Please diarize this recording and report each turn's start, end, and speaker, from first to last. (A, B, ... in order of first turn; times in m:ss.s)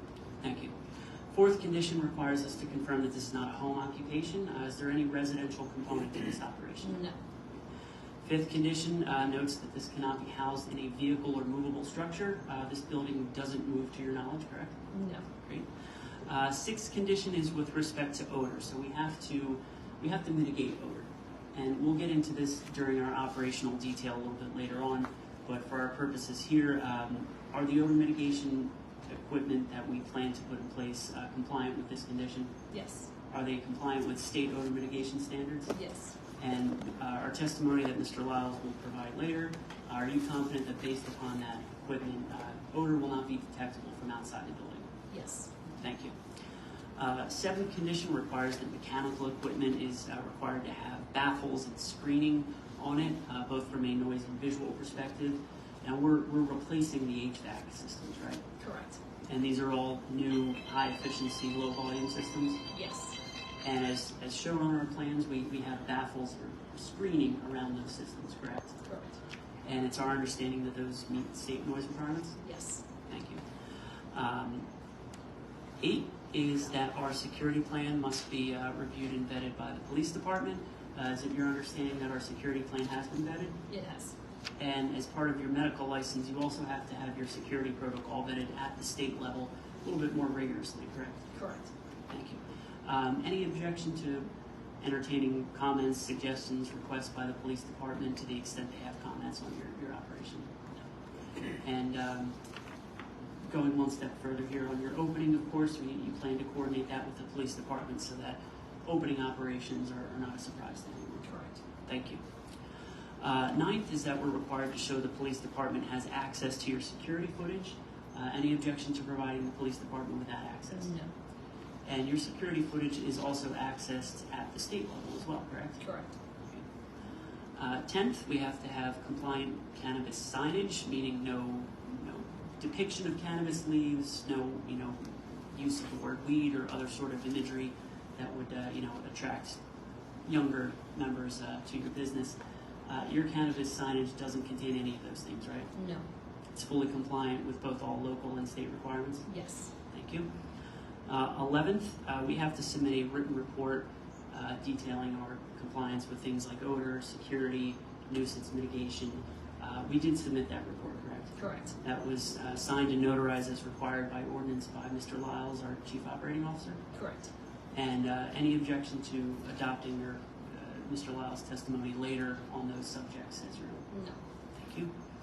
0:00.4-0:00.7 A
0:01.3-0:07.0 A
0:06.8-0:07.2 B
0:08.2-0:32.6 A
0:14.9-0:15.3 B
0:32.7-0:33.1 B
0:33.3-0:35.8 A
0:35.7-0:36.2 B
0:36.4-0:44.9 A
0:45.1-0:45.5 B
0:45.8-0:46.2 A
0:47.0-0:58.4 A
0:58.6-0:59.0 B
0:59.3-1:02.6 A
1:02.7-1:03.2 B
1:03.6-1:08.8 A
1:08.8-1:09.2 B
1:09.6-1:12.4 A
1:12.4-1:12.8 B
1:13.1-1:13.4 A
1:14.1-1:14.7 A
1:15.8-1:23.6 A
1:23.7-1:24.2 B
1:24.6-1:31.3 A
1:31.3-1:31.7 B
1:32.1-1:34.3 A
1:34.8-1:40.5 A
1:41.5-1:42.4 A
1:43.4-1:51.3 A
1:51.2-1:51.6 B
1:51.8-1:52.2 A
1:53.2-2:00.9 A
2:00.7-2:01.1 B
2:01.8-2:05.8 A
2:05.8-2:06.1 B
2:07.6-2:19.6 A
2:20.3-2:25.7 A
2:25.7-2:26.1 B
2:26.5-2:29.3 A
2:29.3-2:29.7 B
2:29.9-2:30.3 A
2:31.1-2:46.9 A
2:41.4-2:41.8 B
2:46.9-2:47.3 B
2:47.7-2:53.9 A
2:53.9-2:54.2 B
2:54.5-2:54.9 A